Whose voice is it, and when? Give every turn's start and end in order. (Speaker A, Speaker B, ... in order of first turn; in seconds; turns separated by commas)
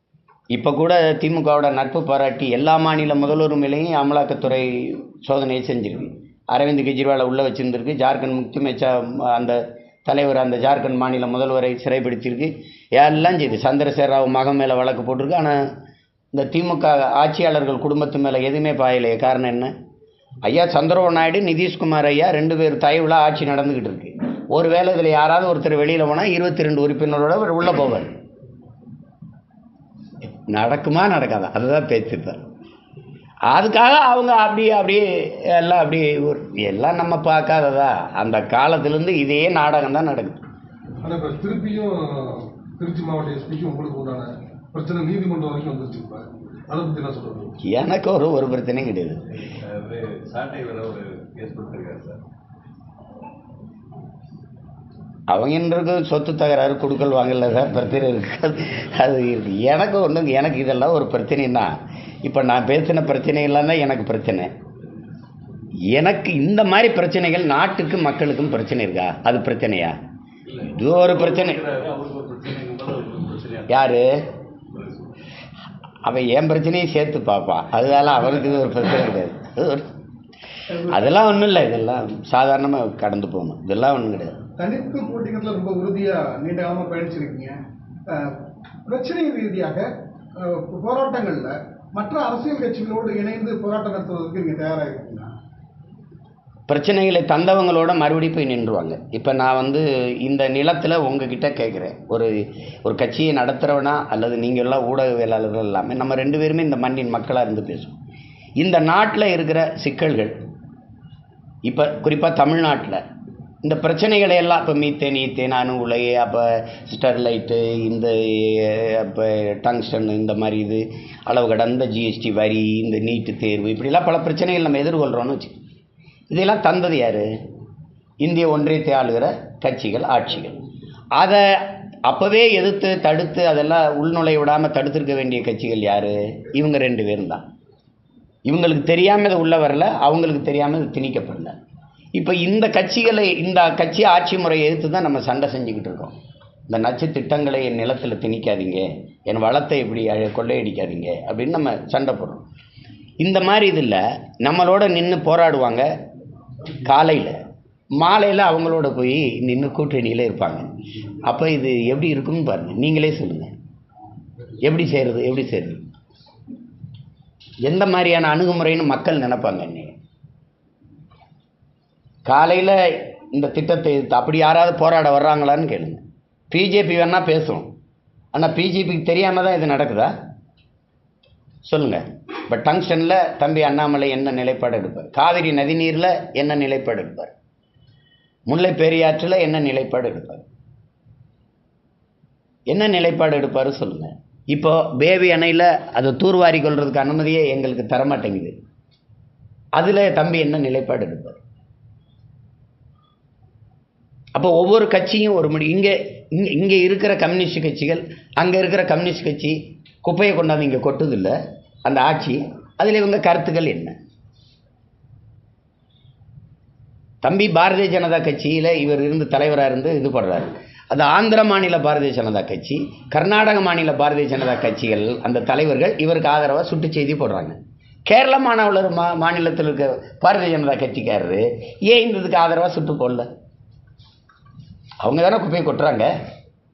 Speaker A: 0.5-15.7, Speaker A: 16.3-19.7, Speaker A: 20.4-28.1, Speaker A: 30.2-32.4, Speaker A: 33.5-40.5, Speaker B: 41.0-47.6, Speaker A: 47.6-49.2, Speaker C: 49.3-52.2, Speaker A: 55.3-64.5, Speaker A: 65.9-70.0, Speaker C: 70.5-73.8, Speaker A: 70.7-71.6, Speaker A: 73.7-74.1, Speaker C: 74.7-75.1, Speaker A: 76.0-79.9, Speaker D: 80.7-81.0, Speaker A: 80.9-84.4, Speaker D: 84.6-87.6, Speaker D: 88.1-95.3, Speaker A: 96.7-108.0, Speaker A: 108.6-110.4, Speaker A: 111.7-113.0, Speaker A: 113.6-125.6, Speaker A: 126.3-127.3, Speaker A: 128.2-130.6, Speaker A: 131.2-137.4, Speaker A: 138.5-141.6, Speaker A: 142.2-146.2, Speaker A: 146.7-152.4, Speaker A: 153.2-155.9, Speaker A: 156.8-157.4, Speaker A: 158.0-160.7, Speaker A: 161.2-163.5, Speaker A: 164.6-165.9, Speaker A: 167.6-169.9, Speaker A: 172.2-177.7, Speaker A: 178.3-180.1, Speaker A: 181.6-187.3, Speaker A: 188.5-190.4, Speaker A: 192.7-198.6, Speaker A: 199.8-201.4, Speaker A: 204.3-213.9, Speaker A: 217.2-233.3, Speaker A: 235.0-236.1